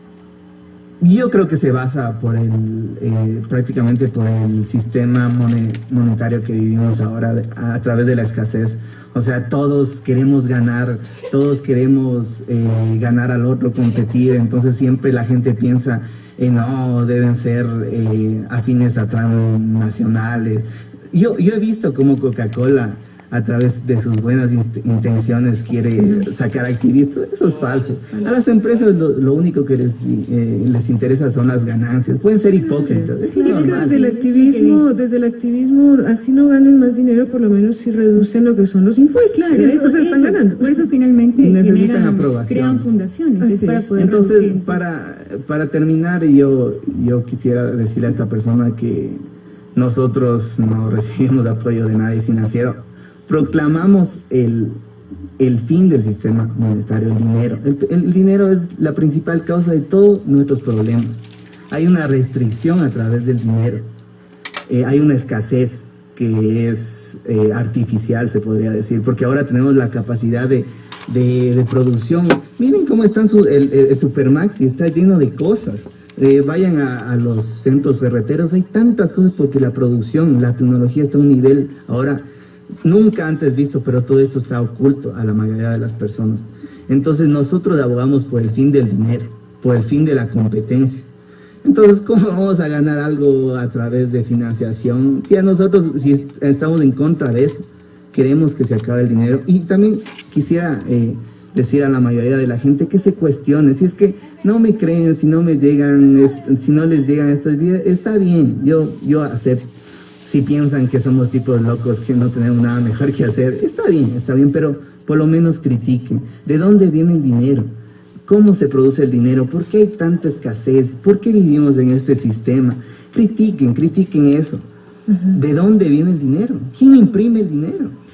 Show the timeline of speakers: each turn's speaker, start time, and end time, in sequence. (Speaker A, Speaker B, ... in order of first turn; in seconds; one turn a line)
Speaker A: 1.0-34.0
Speaker B: 26.0-26.3
Speaker C: 32.6-40.7
Speaker B: 33.3-34.9
Speaker B: 39.3-44.8
Speaker A: 41.4-42.9
Speaker C: 43.4-43.9
Speaker A: 43.9-49.2
Speaker A: 49.7-54.8
Speaker A: 55.4-63.9
Speaker A: 64.7-82.2
Speaker A: 82.8-91.1
Speaker A: 91.6-109.7
Speaker A: 110.2-117.7
Speaker A: 118.2-124.6
Speaker C: 125.1-125.4
Speaker A: 125.3-128.0